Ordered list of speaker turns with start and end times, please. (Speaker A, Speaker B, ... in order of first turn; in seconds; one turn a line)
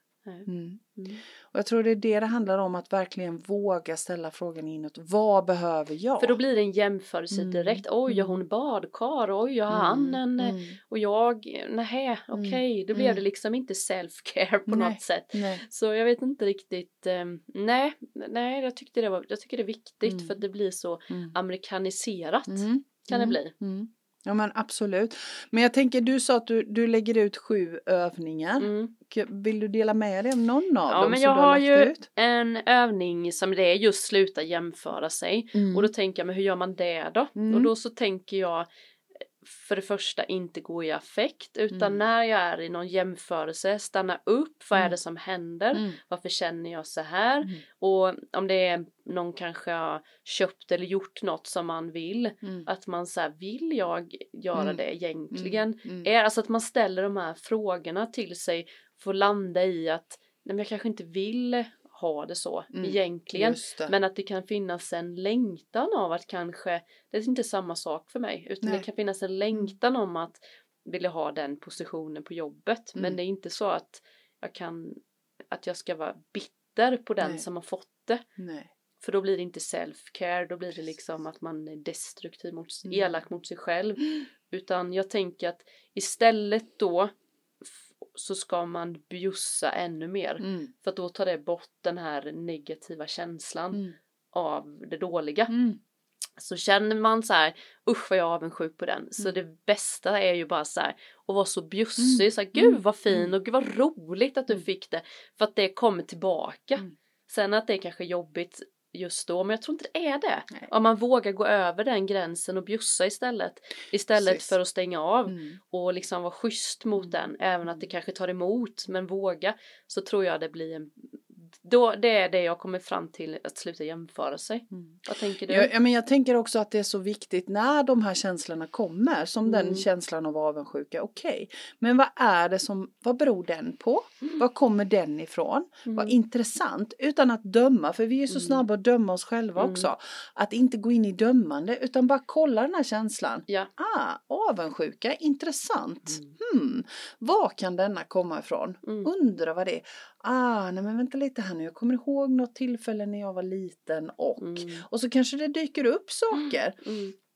Speaker A: 0.2-1.2
Speaker B: 0.5-0.8
Speaker B: 1.4-6.4
Speaker A: 6.2-23.5
Speaker B: 7.3-8.4
Speaker B: 9.7-10.8
Speaker B: 12.3-13.2
Speaker B: 14.7-15.6
Speaker B: 20.0-20.4
Speaker B: 21.1-21.3
Speaker B: 22.5-32.0
Speaker A: 28.6-28.9
Speaker A: 30.9-38.7
Speaker B: 35.5-35.9
Speaker B: 37.4-37.7
Speaker A: 39.4-78.2
Speaker B: 41.7-42.0
Speaker B: 54.5-54.8
Speaker B: 55.3-56.1
Speaker B: 62.7-63.9
Speaker B: 78.4-78.7
Speaker A: 79.0-87.1
Speaker B: 82.8-83.2
Speaker A: 88.0-95.5
Speaker B: 90.4-90.7
Speaker B: 95.5-95.8
Speaker A: 96.4-125.7
Speaker B: 102.0-103.3
Speaker B: 114.1-114.5
Speaker B: 115.3-115.6
Speaker B: 124.7-156.8
Speaker A: 129.4-129.8
Speaker A: 135.8-136.2
Speaker A: 138.3-138.6
Speaker A: 139.6-139.9
Speaker A: 146.1-146.3
Speaker A: 148.8-149.1
Speaker A: 154.4-154.8
Speaker A: 156.3-157.1